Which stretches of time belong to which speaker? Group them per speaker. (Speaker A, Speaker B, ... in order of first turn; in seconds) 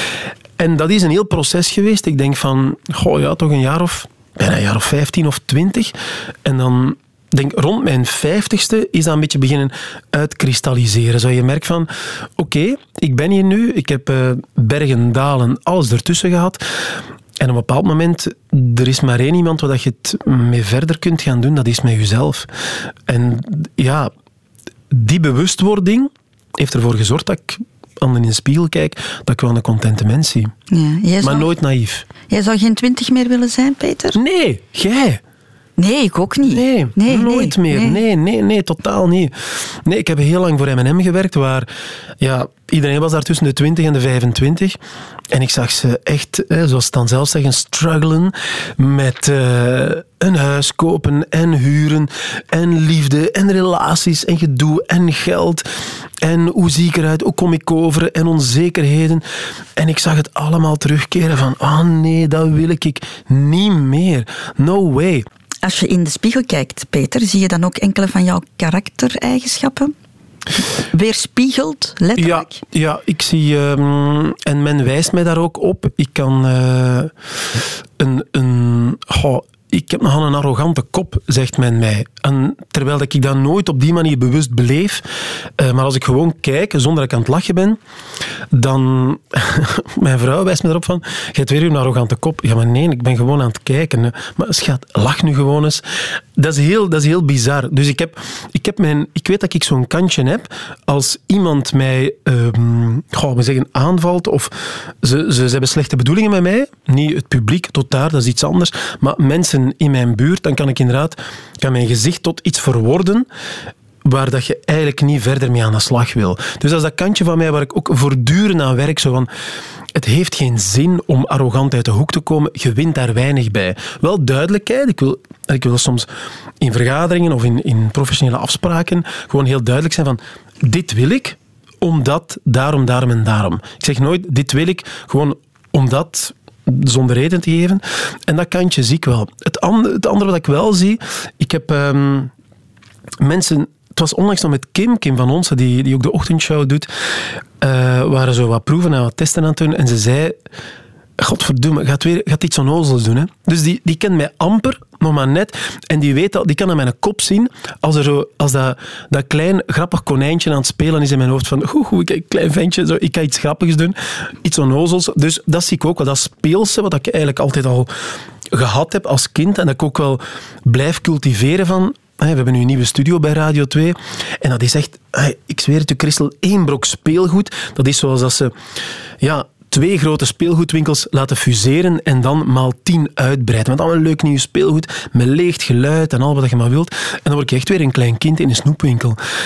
Speaker A: 0.6-5.9, 6.4-16.6, 17.4-22.5, 23.1-24.1, 24.9-30.5, 31.2-32.1, 34.1-35.2, 36.4-41.7, 42.2-44.8, 45.3-55.7, 56.2-59.2, 59.8-65.2, 72.2-85.0, 85.6-87.8, 88.5-113.3, 114.0-119.3, 119.9-126.1, 126.6-142.3, 143.2-146.9, 147.6-150.4, 151.2-167.9, 168.5-178.5, 179.2-189.2
Speaker B: 30.7-31.5, 32.3-34.2, 35.8-38.0, 65.6-69.9, 70.8-72.6